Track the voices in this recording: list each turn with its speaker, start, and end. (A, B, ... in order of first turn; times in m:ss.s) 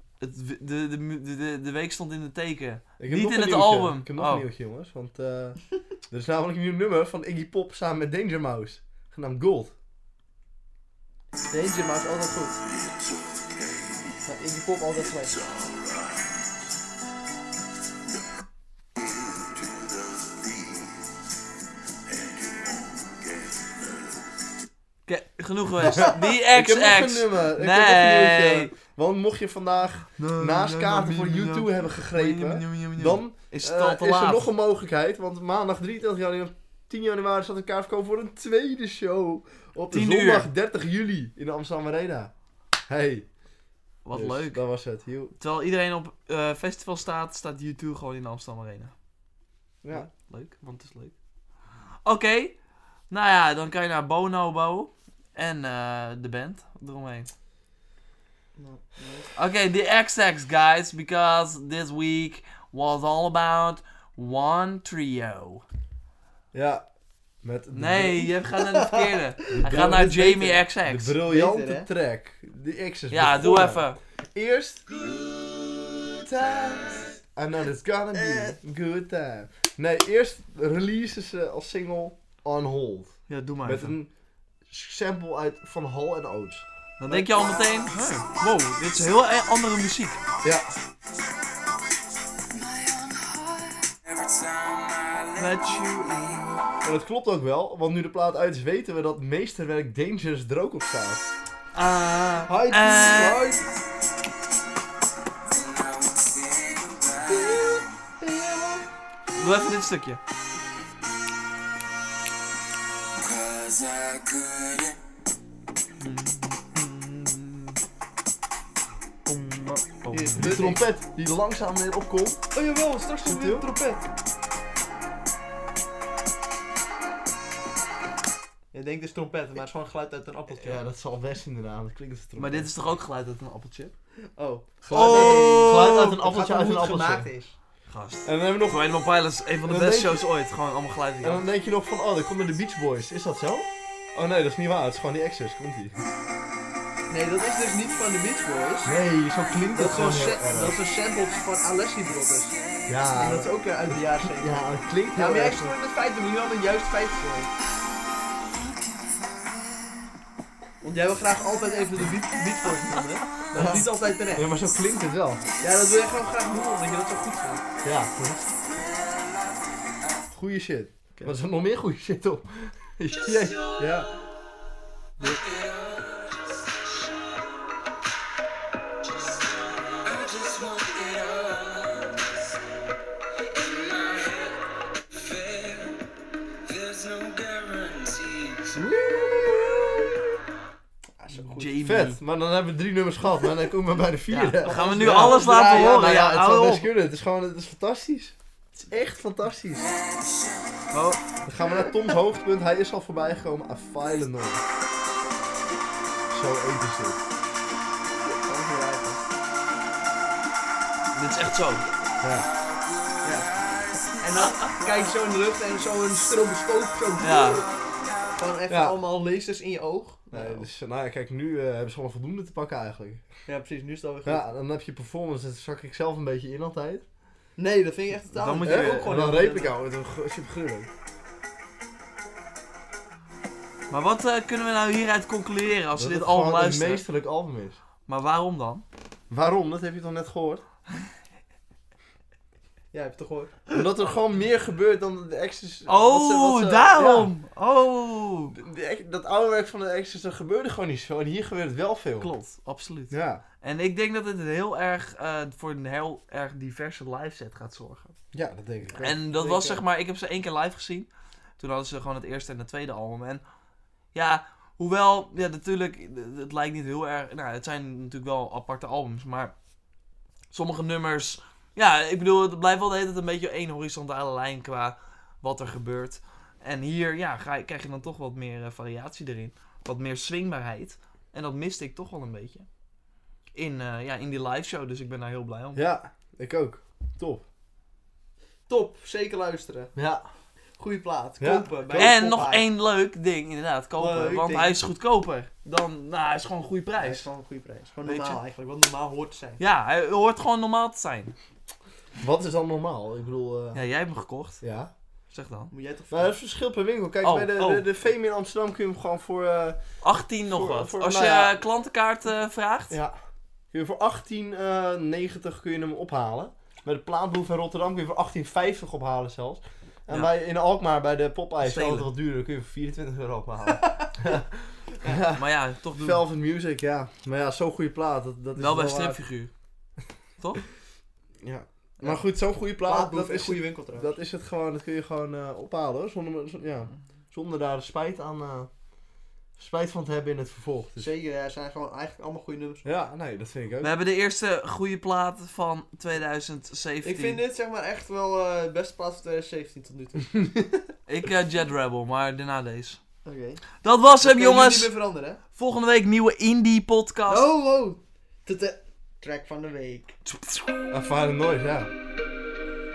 0:00.2-0:04.5 A
0:03.0-0:09.7 B
0:11.5-0:12.6 C
0:14.3-0:15.4 C
0:25.1-0:28.7 A
0:25.9-0:42.3 B
0:30.2-0:34.5 A
0:39.9-0:40.5 A
0:42.9-0:43.3 B
0:44.0-0:44.6 A
0:44.1-0:45.3 B
0:45.4-0:48.9 A
0:49.8-0:50.1 B
0:49.9-0:51.1 A
0:52.0-0:52.6 A
0:53.1-0:57.3 A
0:58.6-0:59.3 C
0:59.4-1:05.6 A
1:06.5-1:06.8 B
1:07.4-1:08.3 B
1:07.7-1:11.2 A
1:08.8-1:09.9 C
1:09.5-1:14.8 B
1:11.2-1:11.9 C
1:13.1-1:14.0 A
1:16.2-1:24.1 B
1:18.1-1:18.6 C
1:23.3-1:24.0 A
1:24.7-1:27.5 B
1:27.0-1:30.2 A
1:30.4-1:30.7 B
1:34.0-1:35.6 D
1:35.4-1:36.6 A
1:36.8-1:41.3 B
1:41.7-1:43.4 A
1:42.5-1:43.7 C
1:45.5-1:47.8 D
1:47.3-1:48.9 C
1:49.4-1:50.2 A
1:53.2-1:55.0 D
1:56.0-1:57.8 A
1:59.3-2:00.5 A
2:00.1-2:00.9 C
2:00.4-2:02.4 B
2:02.5-2:04.1 C
2:03.3-2:03.6 B
2:08.7-2:10.8 C
2:10.6-2:12.7 B
2:12.4-2:13.9 A
2:14.4-2:17.6 C
2:14.8-2:17.3 B
2:14.9-2:16.2 A
2:17.9-2:21.4 A
2:18.2-2:19.0 B
2:19.6-2:20.3 B
2:21.2-2:25.9 B
2:27.1-2:28.9 C
2:28.8-2:30.8 B
2:29.7-2:32.6 C
2:32.9-2:35.8 B
2:33.2-2:37.5 C
2:40.8-2:44.5 C
2:43.4-2:43.9 A
2:43.5-2:45.5 B
2:45.6-2:47.6 C
2:47.8-2:48.5 B
2:50.3-2:54.1 B
2:55.2-2:56.8 D
3:00.0-3:02.3 D
3:03.5-3:06.0 D
3:06.7-3:08.8 D
3:08.8-3:10.2 B
3:08.8-3:09.7 C
3:11.2-3:11.8 C
3:11.4-3:12.2 A
3:11.8-3:18.4 B
3:14.3-3:16.9 A
3:14.6-3:16.0 C
3:18.9-3:19.9 B
3:20.9-3:21.2 A
3:21.4-3:24.6 B
3:26.3-3:27.2 B
3:28.2-3:29.2 C
3:31.2-3:31.9 A
3:32.2-3:32.5 B
3:32.7-3:33.7 D
3:33.2-3:33.5 C
3:34.2-3:37.7 C
3:37.2-3:37.6 A
3:38.4-3:40.7 C
3:38.7-3:39.0 B
3:40.3-3:43.2 B
3:43.5-3:44.5 C
3:44.2-3:47.0 B
3:47.6-3:49.8 C
3:48.4-3:49.2 A
3:48.6-3:50.9 B
3:53.9-3:57.0 A
3:56.0-3:57.8 B
3:58.1-3:58.8 A
3:59.3-4:00.6 B
4:02.9-4:03.7 C
4:03.7-4:07.3 B
4:05.9-4:08.6 A
4:08.5-4:12.3 B
4:12.2-4:18.2 A
4:13.1-4:13.4 B
4:18.3-4:19.8 B
4:19.0-4:23.4 A
4:24.1-4:29.5 A
4:30.5-4:42.7 A
4:43.6-4:45.8 A
4:45.8-4:47.4 B
4:48.7-4:49.9 C
4:50.0-4:50.2 B
4:50.8-4:52.7 C
4:51.4-4:52.2 B
4:52.0-4:57.3 A
4:54.0-4:54.8 C
4:57.0-4:59.6 C
4:58.0-4:58.4 A
4:59.6-5:01.3 A
5:02.2-5:03.8 B
5:03.7-5:04.6 A
5:04.6-5:04.9 B
5:05.3-5:05.7 A
5:05.7-5:06.4 C
5:06.1-5:09.8 B
5:07.2-5:07.9 A
5:10.0-5:13.0 A
5:10.5-5:11.6 B
5:12.9-5:13.2 B
5:13.7-5:25.5 B
5:21.6-5:22.1 A
5:23.8-5:24.1 C
5:25.2-5:26.2 A
5:26.0-5:29.2 B
5:28.6-5:29.5 A
5:31.4-5:38.7 B
5:32.8-5:34.1 C
5:39.6-5:41.1 B
5:41.0-5:42.9 C
5:42.8-5:43.9 B
5:43.8-5:47.4 A
5:47.0-5:50.3 C
5:50.3-5:50.8 B
5:51.1-5:53.0 A
5:53.2-5:53.6 C
5:53.8-5:54.9 A
5:54.2-5:55.4 C
5:55.6-5:57.5 A
5:57.3-6:00.2 C
6:00.3-6:00.7 A
6:00.9-6:01.9 B